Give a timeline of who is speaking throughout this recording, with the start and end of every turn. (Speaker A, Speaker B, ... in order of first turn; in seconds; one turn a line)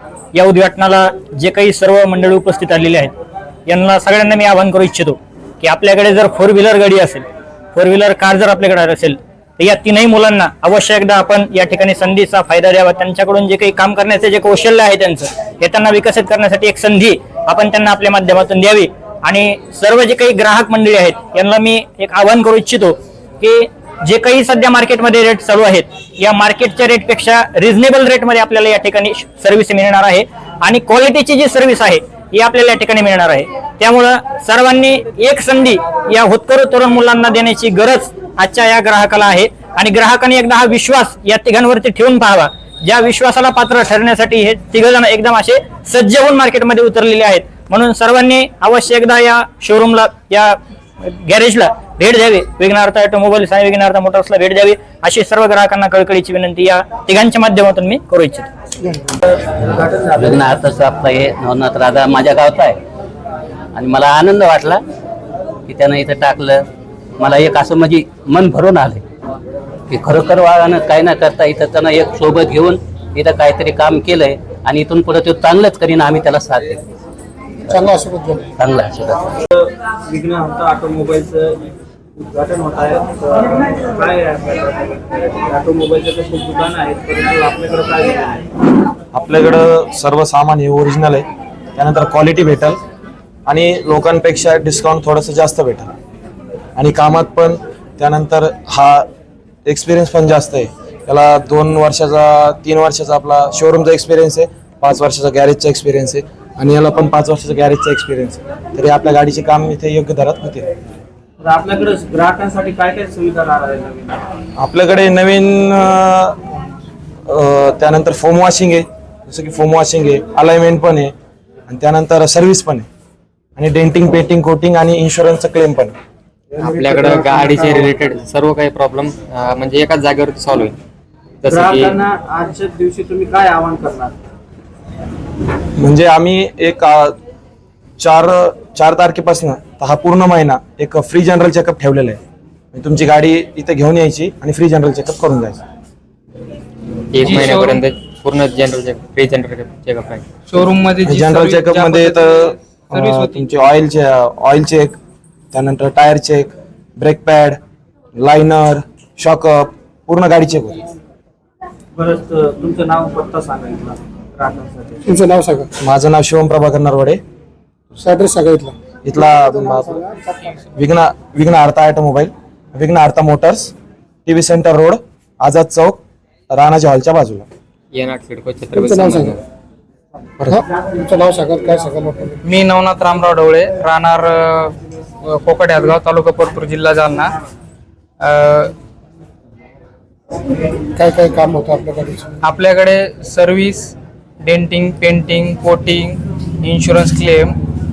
Speaker A: 0.3-3.1
Speaker A: 3.7-58.5
Speaker B: 59.4-60.7
Speaker C: 60.2-62.8
Speaker C: 63.7-64.8
Speaker C: 65.7-66.7
Speaker C: 67.2-69.0
Speaker C: 69.9-76.8
Speaker D: 77.8-78.5
Speaker C: 78.6-79.3
Speaker B: 79.5-81.6
Speaker B: 82.2-88.4
Speaker E: 89.1-91.2
Speaker E: 91.8-92.8
Speaker E: 93.5-95.9
Speaker E: 96.8-99.1
Speaker E: 99.7-110.7
Speaker B: 111.4-114.2
Speaker E: 114.6-116.3
Speaker E: 117.3-121.1
Speaker E: 121.7-122.8
Speaker E: 123.6-125.9
Speaker F: 126.6-130.7
Speaker F: 131.4-132.0
Speaker B: 131.5-134.2
Speaker E: 135.8-137.2
Speaker E: 138.0-142.2
Speaker E: 142.7-145.6
Speaker F: 147.1-150.2
Speaker G: 147.2-147.8
Speaker G: 150.5-152.2
Speaker E: 151.0-155.0
Speaker G: 152.9-153.4
Speaker E: 155.5-157.6
Speaker E: 158.2-160.8
Speaker B: 161.9-165.0
Speaker D: 165.1-165.7
Speaker E: 165.8-167.2
Speaker D: 168.0-168.7
Speaker E: 169.0-170.0
Speaker E: 170.7-173.7
Speaker E: 174.2-176.0
Speaker E: 176.5-177.5
Speaker F: 177.9-179.4
Speaker D: 179.0-179.3
Speaker D: 180.5-182.4
Speaker G: 182.4-184.7
Speaker G: 185.2-187.3
Speaker G: 188.2-188.7
Speaker D: 191.0-192.2
Speaker G: 192.4-197.5